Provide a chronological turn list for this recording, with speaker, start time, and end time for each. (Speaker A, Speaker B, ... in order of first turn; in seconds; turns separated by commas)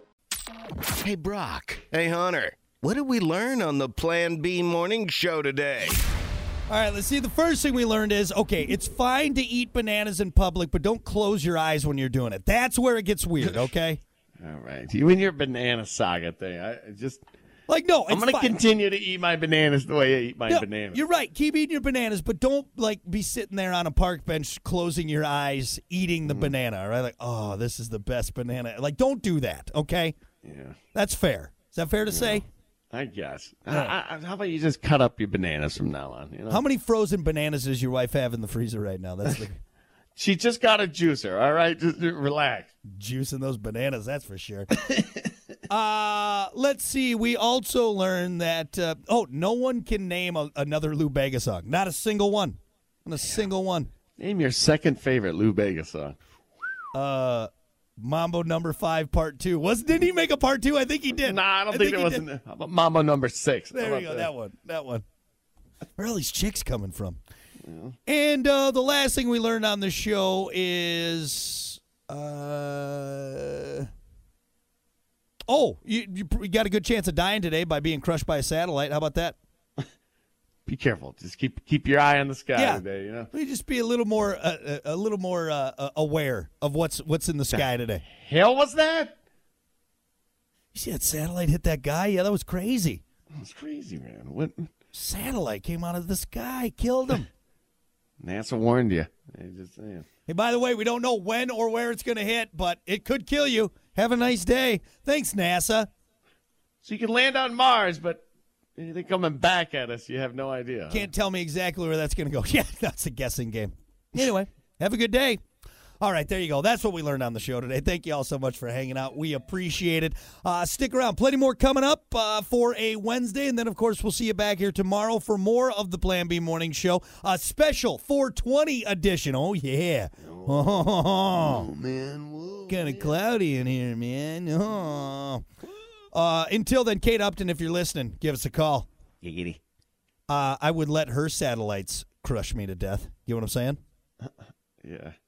Speaker A: 1.0-6.0, Speaker B: 6.7-14.0, Speaker C: 14.4-17.2, Speaker B: 17.7-18.6, Speaker C: 18.1-21.0, Speaker B: 20.5-30.2, Speaker C: 26.2-26.5, Speaker C: 30.4-30.8, Speaker B: 30.9-32.5, Speaker C: 32.1-36.6, Speaker B: 36.5-39.6, Speaker C: 40.2-42.7, Speaker B: 42.9-44.7, Speaker B: 45.7-53.9, Speaker C: 54.2-56.2, Speaker B: 56.9-62.2, Speaker C: 61.2-64.3, Speaker B: 63.7-65.0, Speaker B: 66.0-67.2, Speaker C: 67.6-68.0, Speaker B: 68.1-73.9, Speaker B: 75.5-79.4, Speaker C: 80.7-83.3, Speaker B: 82.5-88.0, Speaker C: 87.5-89.1, Speaker B: 90.7-93.0, Speaker C: 93.4-94.7, Speaker B: 94.9-97.3, Speaker C: 98.2-100.0, Speaker B: 100.3-105.9, Speaker C: 106.8-108.2, Speaker C: 108.8-111.1, Speaker B: 110.9-115.4, Speaker B: 116.0-131.7, Speaker C: 130.3-130.8, Speaker C: 131.4-133.1, Speaker B: 132.7-135.4, Speaker B: 136.1-138.9, Speaker C: 139.2-139.6, Speaker B: 140.3-143.8, Speaker C: 144.8-145.1